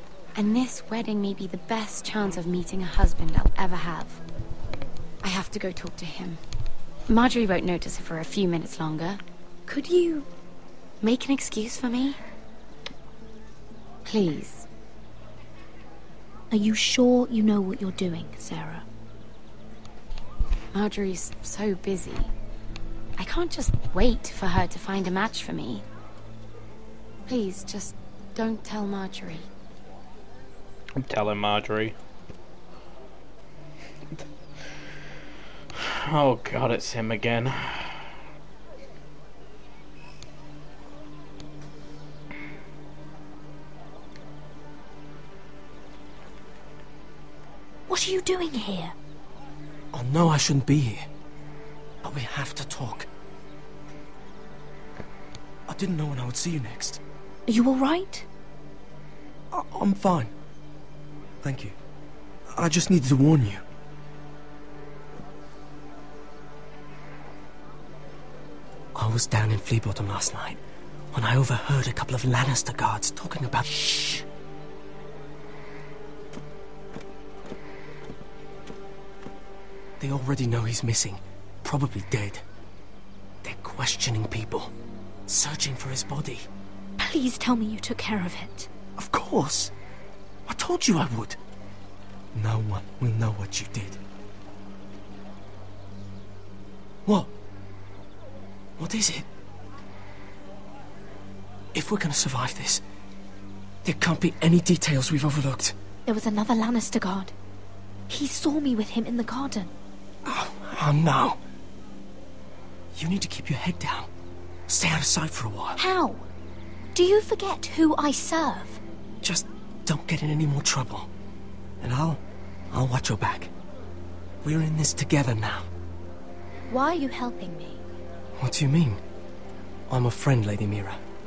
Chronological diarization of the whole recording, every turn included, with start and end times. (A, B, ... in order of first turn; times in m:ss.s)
0:00.4-0:04.2 A
0:05.2-0:06.4 A
0:07.1-0:10.2 A
0:11.0-0:12.2 A
0:14.0-0:14.7 A
0:16.5-0:18.8 B
0:20.7-0:22.3 A
0:23.2-0:25.8 A
0:27.3-0:29.5 A
0:31.0-0:32.0 C
0:35.8-0:38.0 C
0:47.9-0:48.9 B
0:49.9-0:51.0 D
0:52.0-0:53.1 D
0:55.7-0:57.0 D
0:57.5-0:58.2 B
0:59.5-1:00.3 D
1:01.4-1:01.8 D
1:02.5-1:03.6 D
1:08.9-1:10.6 D
1:11.1-1:14.2 D
1:20.0-1:22.4 D
1:23.4-1:24.7 D
1:25.3-1:26.4 D
1:27.0-1:28.7 B
1:29.0-1:29.7 D
1:30.4-1:31.4 D
1:32.3-1:34.0 D
1:37.0-1:37.3 D
1:38.8-1:39.3 D
1:41.7-1:42.8 D
1:43.8-1:45.8 D
1:46.0-1:47.3 B
1:48.1-1:49.7 B
1:50.2-1:51.4 D
1:52.9-1:54.1 D
1:54.7-1:55.8 D
1:55.8-1:56.2 B
1:56.9-1:58.8 B
1:59.2-2:01.1 D
2:01.8-2:03.5 D
2:04.4-2:05.7 D
2:06.7-2:07.8 B
2:08.4-2:09.0 D
2:09.9-2:11.0 D